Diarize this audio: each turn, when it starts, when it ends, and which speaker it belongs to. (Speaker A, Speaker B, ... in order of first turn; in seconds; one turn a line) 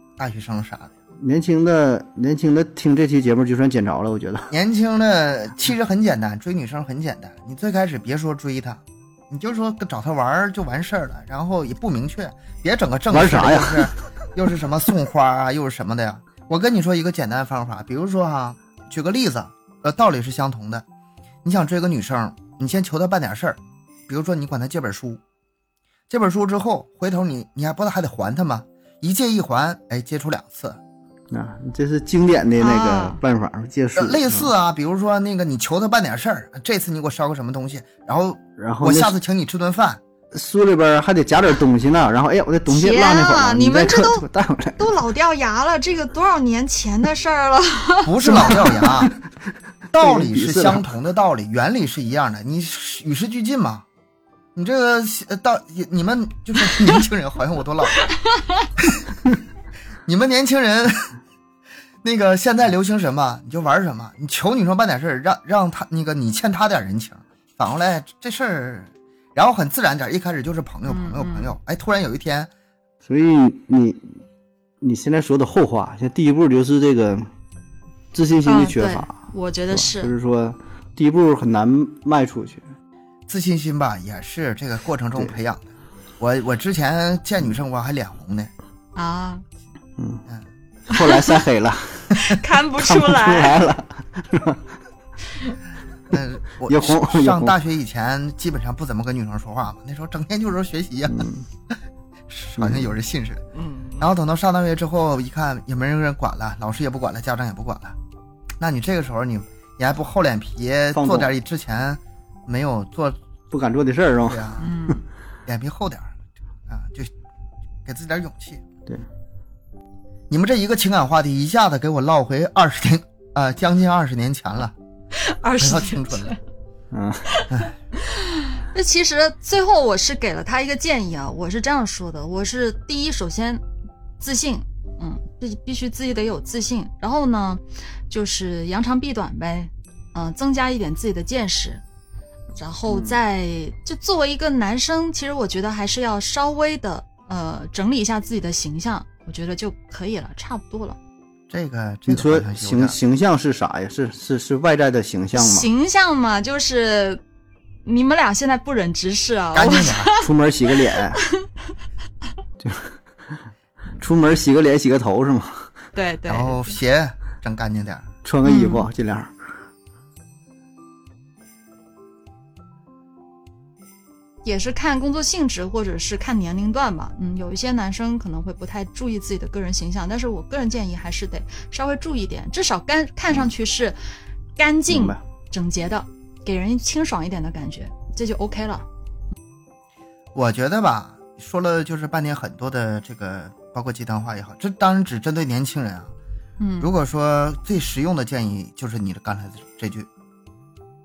Speaker A: 0.2-0.9
Speaker B: 1.2-4.5
Speaker A: 4.5-20.9
Speaker B: 13.1-13.9
Speaker A: 21.4-25.2
Speaker A: 26.1-30.8
Speaker B: 31.3-34.5
Speaker C: 32.6-33.2
Speaker A: 34.0-40.0
Speaker B: 38.6-39.1
Speaker B: 40.3-45.0
Speaker C: 42.7-44.3
Speaker C: 44.8-48.6
Speaker A: 48.0-49.1
Speaker B: 48.2-49.2
Speaker B: 49.9-50.9
Speaker A: 49.9-53.9
Speaker A: 54.5-58.1
Speaker C: 58.0-58.7
Speaker A: 60.1-61.2
Speaker A: 62.0-72.5
Speaker C: 70.9-71.5
Speaker B: 73.0-74.2
Speaker B: 74.8-77.3
Speaker B: 78.1-82.7
Speaker C: 78.5-80.1
Speaker A: 83.3-85.7
Speaker A: 86.2-88.5
Speaker C: 89.0-89.4
Speaker B: 90.0-90.2
Speaker C: 90.9-91.2
Speaker B: 90.9-94.7
Speaker C: 92.1-93.6
Speaker A: 96.1-101.8
Speaker B: 96.7-97.6
Speaker B: 101.1-101.5
Speaker A: 102.3-103.5
Speaker B: 102.6-102.9
Speaker C: 103.6-104.0
Speaker A: 104.0-108.0
Speaker A: 108.6-113.2
Speaker B: 110.9-111.3
Speaker B: 113.5-114.5
Speaker A: 114.3-114.7
Speaker C: 114.6-115.0
Speaker A: 115.5-116.1
Speaker A: 116.7-117.1
Speaker A: 117.8-118.6
Speaker A: 120.3-124.8
Speaker C: 125.2-126.4
Speaker A: 125.6-126.3
Speaker B: 126.9-127.3
Speaker C: 127.3-133.6
Speaker C: 134.2-141.8
Speaker C: 142.6-151.0
Speaker A: 151.5-153.0
Speaker B: 152.1-155.7
Speaker C: 155.3-157.2
Speaker C: 157.8-160.2
Speaker A: 159.5-160.1
Speaker B: 160.2-161.2
Speaker B: 162.6-163.0
Speaker B: 164.0-165.7
Speaker C: 165.9-166.7
Speaker A: 166.3-168.1
Speaker B: 168.2-169.3
Speaker C: 168.4-168.9
Speaker C: 174.4-184.0
Speaker C: 184.6-188.9
Speaker B: 184.9-185.2
Speaker A: 190.3-196.1
Speaker C: 196.6-196.9
Speaker A: 196.8-200.1